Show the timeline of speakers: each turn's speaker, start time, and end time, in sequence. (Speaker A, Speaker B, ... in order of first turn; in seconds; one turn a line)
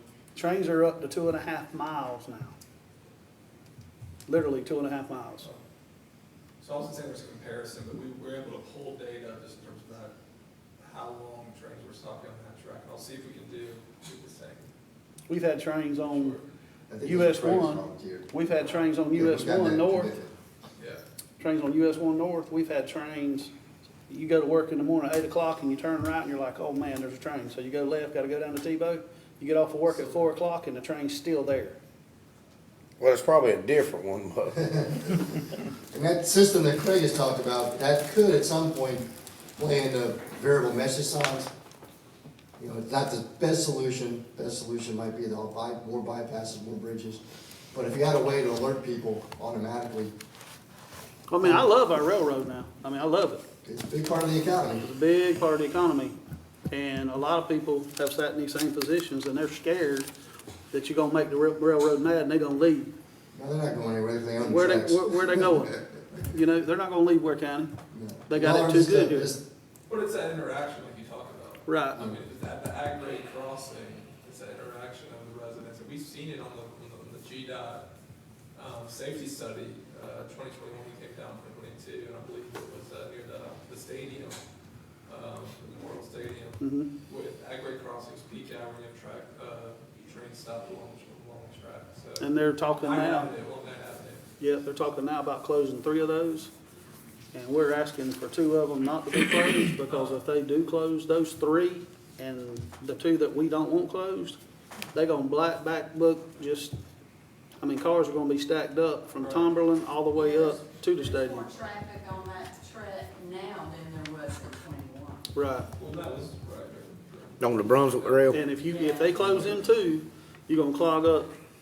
Speaker A: 0.3-2.5
Speaker A: 4.3-5.5
Speaker B: 6.6-10.1
Speaker B: 10.8-14.7
Speaker A: 15.3-16.4
Speaker B: 16.0-16.5
Speaker C: 16.9-18.3
Speaker A: 17.0-20.1
Speaker C: 19.1-20.3
Speaker A: 21.4-23.5
Speaker A: 24.1-31.8
Speaker D: 33.0-34.5
Speaker C: 34.6-35.2
Speaker C: 35.9-41.5
Speaker C: 42.6-47.2
Speaker C: 47.7-50.1
Speaker A: 51.3-53.4
Speaker C: 51.4-51.7
Speaker C: 53.6-54.9
Speaker A: 54.8-56.2
Speaker A: 56.7-60.1
Speaker A: 60.7-62.9
Speaker C: 63.3-65.7
Speaker A: 64.4-67.8
Speaker C: 67.9-69.4
Speaker A: 68.3-69.4
Speaker B: 69.9-77.9
Speaker A: 71.7-72.0
Speaker B: 78.5-84.4
Speaker B: 85.1-94.3
Speaker A: 86.6-86.9
Speaker A: 92.2-93.3
Speaker A: 94.4-96.5
Speaker A: 97.3-104.4
Speaker B: 99.9-100.2
Speaker A: 104.9-106.8
Speaker A: 107.6-111.5
Speaker B: 109.1-109.5
Speaker E: 110.1-115.3
Speaker A: 115.3-115.7
Speaker B: 115.8-118.4
Speaker D: 117.4-118.4
Speaker A: 118.3-121.3
Speaker E: 118.6-119.6